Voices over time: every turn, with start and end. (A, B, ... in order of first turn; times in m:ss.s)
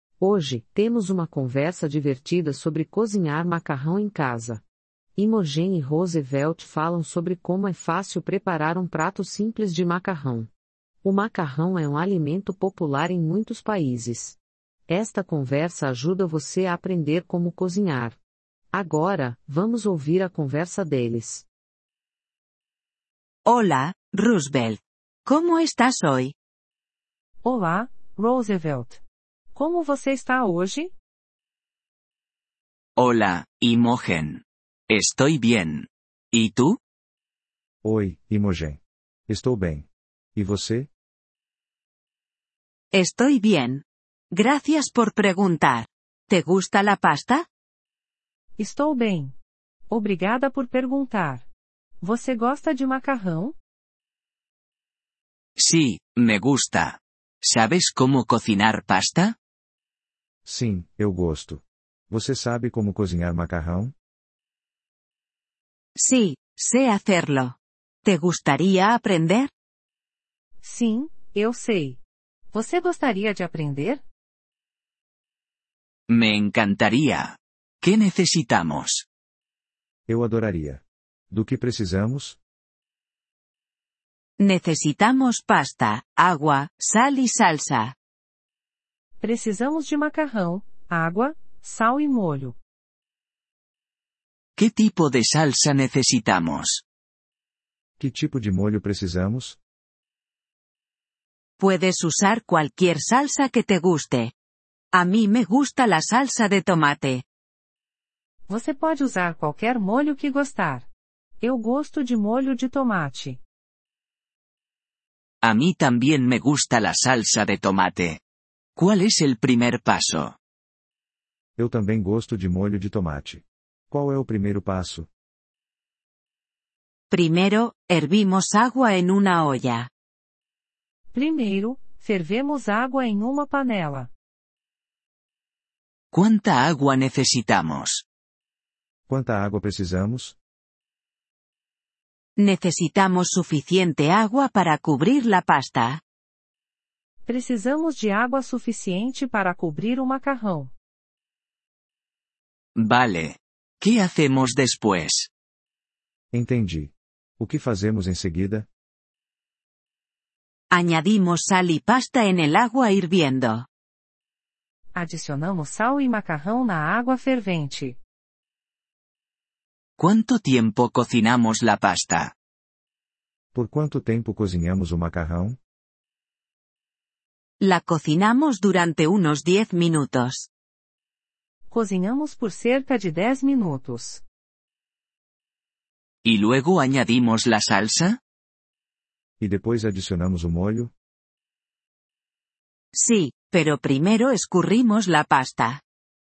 0:00.2-0:04.6 A
0:05.2-0:10.5 A
0:11.0-0:14.4 A
0:14.9-0:18.2 A
0:18.7-0:21.4 A
0:23.4-0:26.3 B
0:27.4-0:29.0 C
0:29.5-0:30.9 C
0:33.0-0:36.8 D
0:37.8-0:40.9 E
0:42.9-0:47.4 B
0:48.6-0:49.3 C
0:49.9-0:51.4 C
0:52.0-0:53.5 C
0:55.6-0:59.3 D
1:00.4-1:03.9 E
1:06.0-1:09.5 B
1:10.6-1:12.0 C
1:12.5-1:14.0 C
1:16.1-1:19.0 D
1:20.1-1:22.4 E
1:24.4-1:27.9 B
1:29.2-1:32.6 C
1:34.6-1:36.8 D
1:38.0-1:39.6 E
1:41.6-1:44.3 B
1:44.9-1:47.2 B
1:48.5-1:50.9 C
1:51.4-1:53.4 C
1:55.4-1:58.2 D
1:58.8-2:00.3 D
2:01.6-2:05.1 E
2:07.1-2:09.9 B
2:11.1-2:14.1 C
2:16.1-2:18.0 D
2:19.1-2:20.4 E
2:22.4-2:26.0 B
2:27.2-2:30.7 C
2:32.8-2:35.3 D
2:36.3-2:38.7 E
2:40.7-2:43.6 B
2:44.9-2:48.0 C
2:50.0-2:52.3 D
2:53.5-2:55.6 E
2:57.6-3:00.5 B
3:01.7-3:04.2 C
3:06.2-3:08.2 D
3:09.4-3:10.9 E
3:12.9-3:15.8 B